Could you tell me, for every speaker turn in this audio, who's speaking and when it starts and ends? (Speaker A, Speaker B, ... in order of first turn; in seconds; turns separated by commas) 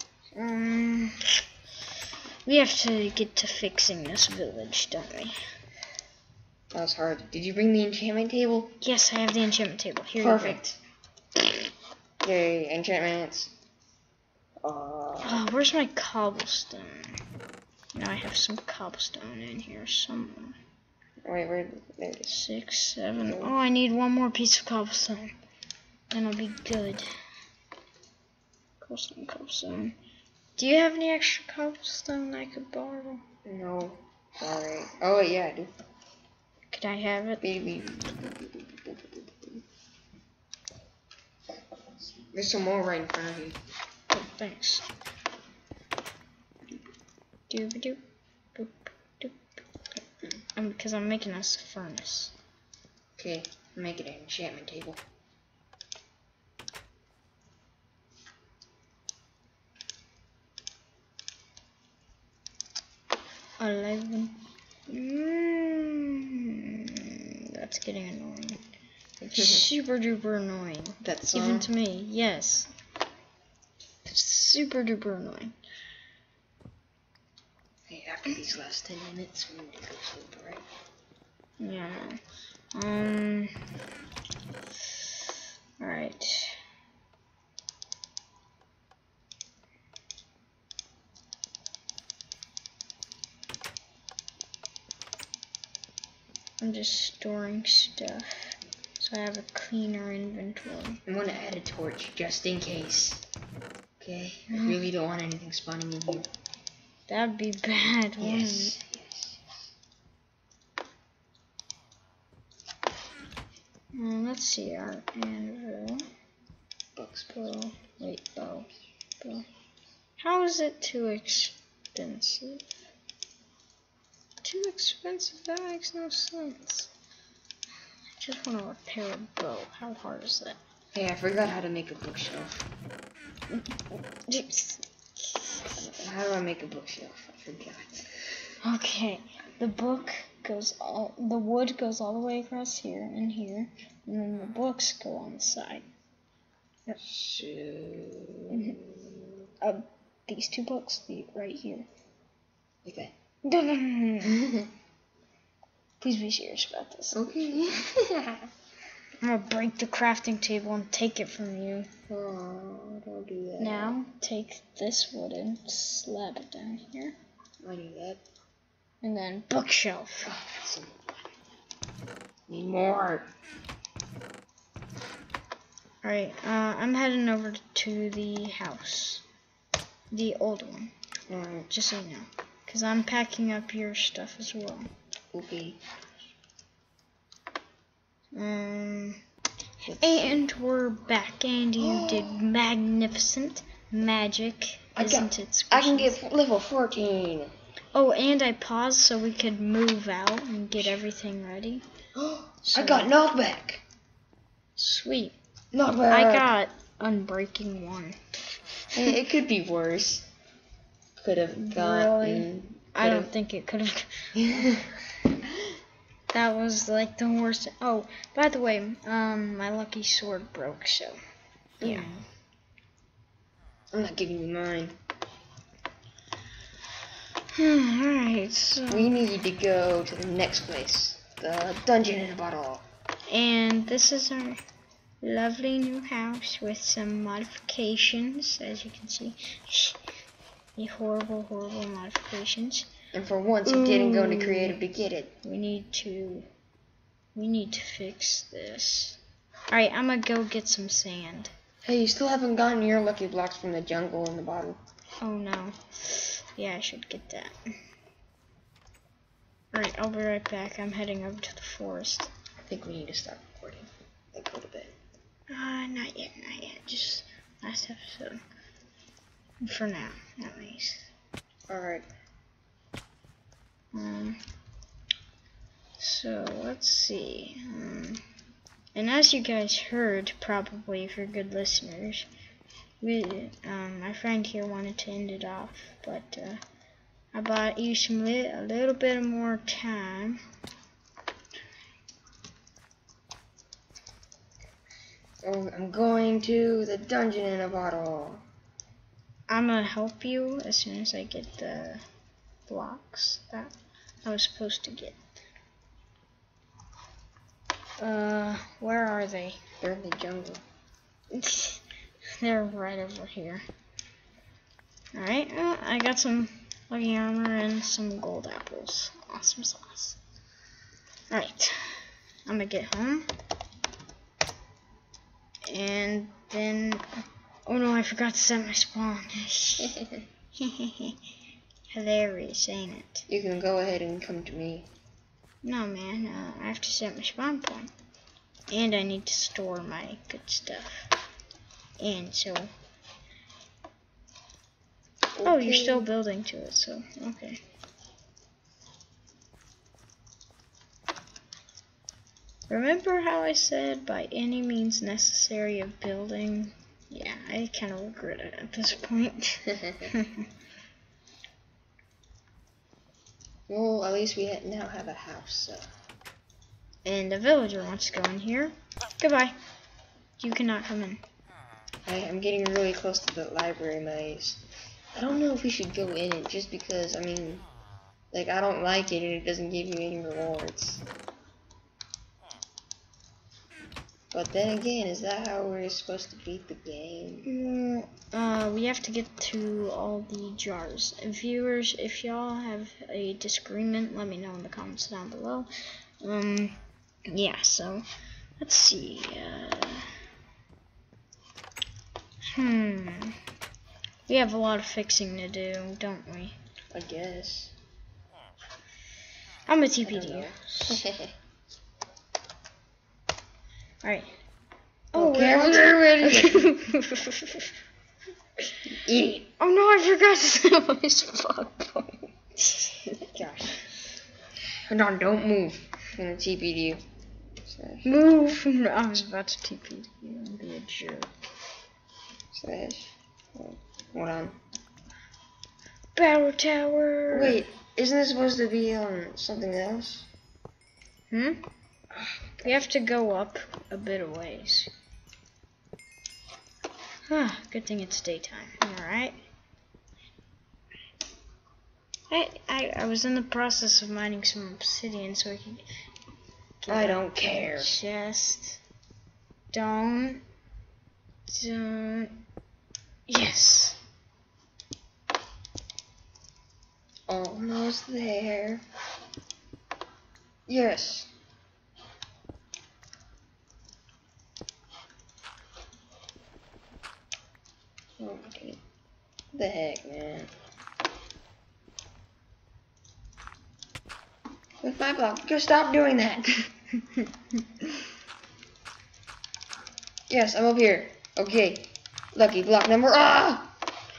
Speaker A: 0.3-1.4, Speaker A: 2.4-5.3, Speaker B: 6.7-8.8, Speaker A: 8.8-10.6, Speaker B: 10.2-10.8, Speaker B: 12.2-13.5, Speaker B: 14.6-15.4, Speaker A: 15.2-17.2, Speaker A: 17.9-20.6, Speaker B: 21.2-22.4, Speaker A: 22.3-25.3, Speaker B: 23.2-23.5, Speaker A: 26.1-27.1, Speaker A: 28.8-29.9, Speaker A: 30.6-33.2, Speaker B: 33.5-35.8, Speaker A: 36.7-37.4, Speaker B: 37.4-39.6, Speaker B: 42.1-43.6, Speaker A: 44.1-44.9, Speaker A: 47.5-48.0, Speaker A: 48.5-49.4, Speaker A: 50.5-52.3, Speaker B: 53.2-55.0, Speaker A: 63.6-68.6, Speaker B: 69.2-69.7, Speaker A: 69.3-72.7, Speaker B: 71.0-71.7, Speaker A: 74.0-75.5, Speaker B: 77.9-80.6, Speaker A: 81.6-82.2, Speaker A: 82.7-83.5, Speaker A: 85.8-86.6, Speaker A: 96.6-101.0, Speaker B: 101.1-103.2, Speaker B: 104.0-106.3, Speaker A: 104.5-104.8, Speaker A: 107.1-108.8, Speaker B: 108.2-109.4, Speaker A: 113.9-116.0, Speaker B: 117.0-117.5, Speaker A: 117.3-118.7, Speaker A: 120.2-122.7, Speaker A: 124.4-126.9, Speaker A: 128.1-130.6, Speaker B: 130.9-132.7, Speaker A: 133.5-135.9, Speaker B: 135.8-138.1, Speaker A: 138.6-145.9, Speaker B: 147.0-149.2, Speaker A: 148.5-148.8, Speaker A: 149.6-151.9, Speaker B: 152.8-153.1, Speaker A: 153.4-154.5, Speaker A: 156.0-157.8, Speaker B: 157.1-158.5, Speaker A: 159.2-161.9, Speaker B: 162.1-164.0, Speaker A: 163.6-167.2, Speaker B: 167.6-168.2, Speaker A: 169.0-170.3, Speaker B: 170.2-171.2, Speaker B: 172.5-173.3, Speaker A: 176.0-179.2, Speaker A: 180.1-180.9, Speaker B: 181.3-181.7, Speaker A: 181.7-184.9, Speaker B: 185.3-185.8, Speaker A: 188.3-189.2, Speaker B: 189.8-190.4, Speaker A: 190.0-196.2, Speaker B: 191.8-192.4, Speaker B: 195.0-197.5, Speaker A: 197.9-201.8, Speaker B: 202.2-203.8, Speaker A: 202.6-203.1, Speaker A: 204.8-205.4, Speaker B: 205.7-206.5, Speaker A: 206.1-208.2, Speaker B: 208.9-210.3, Speaker B: 211.2-213.3, Speaker A: 211.6-214.5, Speaker B: 214.4-214.9, Speaker A: 216.3-221.2, Speaker B: 221.8-222.1, Speaker A: 221.8-222.2, Speaker B: 223.9-225.0, Speaker A: 227.5-229.1, Speaker B: 228.9-232.8, Speaker A: 233.3-234.6, Speaker A: 235.2-240.0, Speaker A: 240.8-242.9, Speaker B: 243.1-245.4, Speaker A: 243.7-244.8, Speaker A: 245.4-246.5, Speaker A: 247.3-249.2, Speaker A: 249.7-251.5, Speaker B: 251.8-254.8, Speaker A: 255.2-257.6, Speaker A: 259.7-262.3, Speaker B: 262.7-265.0, Speaker A: 265.5-268.4, Speaker A: 269.6-271.1, Speaker B: 271.7-272.1, Speaker A: 273.9-274.4, Speaker A: 276.0-278.2, Speaker A: 278.9-282.3, Speaker A: 283.0-286.6, Speaker A: 287.3-290.4, Speaker B: 295.4-298.4, Speaker A: 299.5-302.0, Speaker A: 302.7-303.7, Speaker A: 304.2-305.2, Speaker A: 308.0-309.6, Speaker B: 309.8-310.6, Speaker A: 311.3-311.8, Speaker A: 312.4-313.6, Speaker A: 315.1-320.2, Speaker A: 321.3-323.3, Speaker A: 325.7-327.0, Speaker A: 327.7-330.0, Speaker A: 330.6-331.2, Speaker A: 331.9-333.3, Speaker B: 333.3-334.9, Speaker A: 335.6-337.9, Speaker A: 338.7-341.1, Speaker A: 342.0-342.7, Speaker B: 345.4-346.1, Speaker A: 345.4-347.6, Speaker A: 352.7-360.5, Speaker B: 363.7-365.9, Speaker A: 367.1-369.6, Speaker A: 370.4-371.2, Speaker B: 372.1-374.6, Speaker B: 375.1-377.7, Speaker B: 378.3-381.0, Speaker B: 384.3-387.5, Speaker A: 387.4-395.7, Speaker A: 396.2-398.1, Speaker A: 398.6-400.1, Speaker A: 402.5-403.4, Speaker A: 404.3-406.6, Speaker B: 406.9-407.7, Speaker A: 409.7-411.1, Speaker B: 410.0-411.3, Speaker A: 414.0-414.3, Speaker A: 415.1-417.7, Speaker B: 415.1-416.7, Speaker B: 418.9-419.5, Speaker A: 419.6-423.1, Speaker B: 423.2-423.8, Speaker B: 424.9-427.0, Speaker B: 427.7-428.1, Speaker A: 428.1-431.3, Speaker B: 432.5-434.6, Speaker A: 436.1-437.6, Speaker B: 437.3-440.3, Speaker A: 441.3-441.6, Speaker B: 442.1-442.8, Speaker A: 442.6-444.9, Speaker A: 447.3-449.4, Speaker A: 452.3-455.8, Speaker A: 456.8-458.8, Speaker B: 456.9-458.0, Speaker A: 459.7-460.4, Speaker A: 461.5-462.4, Speaker A: 463.3-464.0, Speaker B: 467.3-468.9, Speaker B: 470.7-471.3, Speaker B: 478.2-478.8, Speaker B: 479.5-480.5, Speaker B: 484.8-486.7, Speaker B: 490.3-493.7